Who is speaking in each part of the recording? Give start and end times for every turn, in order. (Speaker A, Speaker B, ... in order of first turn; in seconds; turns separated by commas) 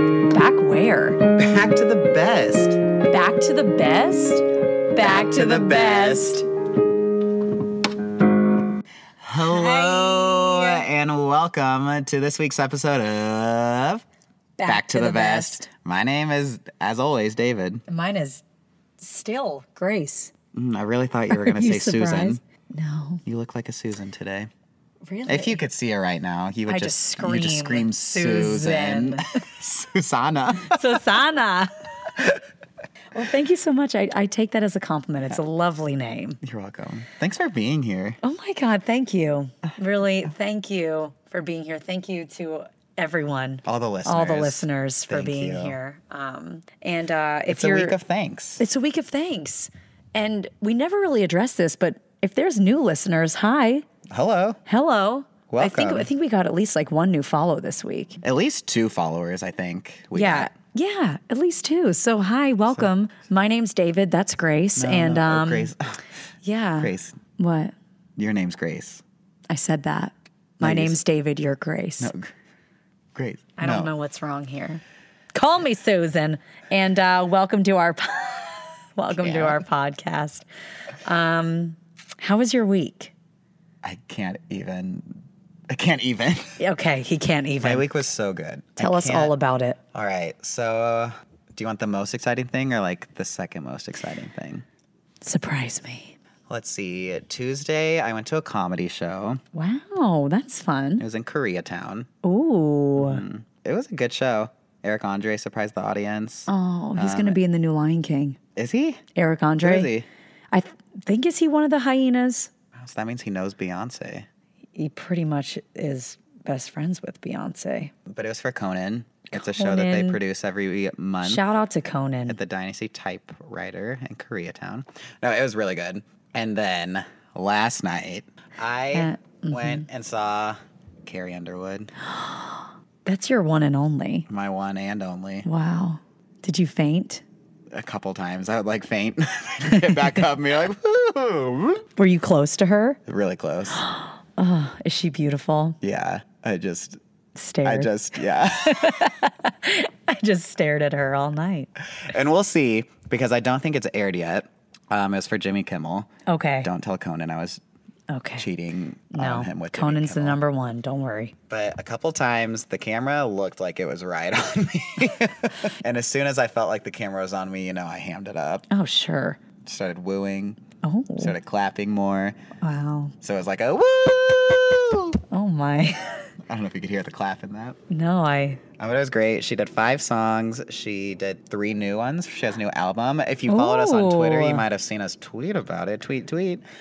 Speaker A: 0.3-1.2, Speaker B: 1.3-2.9, Speaker A: 3.1-6.5, Speaker B: 5.0-6.4, Speaker B: 9.2-14.0, Speaker A: 9.4-10.8, Speaker A: 14.6-15.6, Speaker B: 14.7-17.8, Speaker A: 17.9-18.4, Speaker A: 19.0-20.3, Speaker B: 20.5-22.4, Speaker A: 21.3-23.2, Speaker B: 23.2-24.5, Speaker A: 25.1-25.6, Speaker B: 25.3-31.0, Speaker A: 26.7-29.4, Speaker A: 30.6-32.2, Speaker A: 33.1-36.4, Speaker B: 36.4-38.2, Speaker A: 38.2-48.0, Speaker B: 43.6-45.8, Speaker B: 47.5-48.6, Speaker A: 48.6-53.9, Speaker B: 54.1-54.6, Speaker A: 54.7-58.2, Speaker B: 55.5-56.1, Speaker B: 58.2-60.5, Speaker A: 60.1-65.7, Speaker B: 64.8-65.8, Speaker A: 66.4-67.7, Speaker B: 66.8-67.2, Speaker B: 68.2-69.0, Speaker A: 69.5-72.1, Speaker B: 70.6-71.0, Speaker B: 72.0-72.3, Speaker B: 73.2-73.9, Speaker A: 73.6-74.8, Speaker A: 75.3-80.5, Speaker B: 79.2-79.6, Speaker A: 81.0-83.1, Speaker B: 83.8-86.6, Speaker A: 86.6-87.9, Speaker B: 87.6-89.3, Speaker A: 88.8-89.8, Speaker B: 89.9-94.7, Speaker A: 95.2-96.2, Speaker B: 96.5-99.4, Speaker A: 99.5-101.0, Speaker B: 101.0-102.1, Speaker A: 102.2-103.2, Speaker B: 103.0-107.4, Speaker A: 106.5-108.4, Speaker B: 108.6-109.0, Speaker A: 109.2-109.9, Speaker B: 109.6-110.1, Speaker A: 110.5-112.5, Speaker B: 112.7-114.3, Speaker A: 114.8-117.9, Speaker B: 118.1-121.5, Speaker A: 119.3-120.2, Speaker A: 121.2-122.4, Speaker B: 122.3-131.9, Speaker A: 128.9-129.8, Speaker A: 132.1-134.3, Speaker B: 134.3-135.5, Speaker A: 135.4-137.2, Speaker B: 137.7-141.8, Speaker A: 142.0-143.0, Speaker B: 143.1-143.8, Speaker A: 143.8-145.8, Speaker B: 145.8-147.0, Speaker A: 147.3-151.7, Speaker B: 147.6-149.1, Speaker B: 151.8-156.1, Speaker A: 156.3-156.7, Speaker B: 156.6-157.6, Speaker A: 158.1-158.4, Speaker B: 158.4-160.4, Speaker A: 159.1-161.3, Speaker B: 161.5-168.7, Speaker A: 168.7-169.4, Speaker B: 169.6-170.6, Speaker A: 170.8-171.3, Speaker B: 171.2-172.4, Speaker A: 172.6-173.1, Speaker B: 173.2-175.2, Speaker A: 175.3-176.3, Speaker B: 176.5-177.8, Speaker A: 177.9-178.6, Speaker B: 178.8-186.6, Speaker A: 183.5-184.6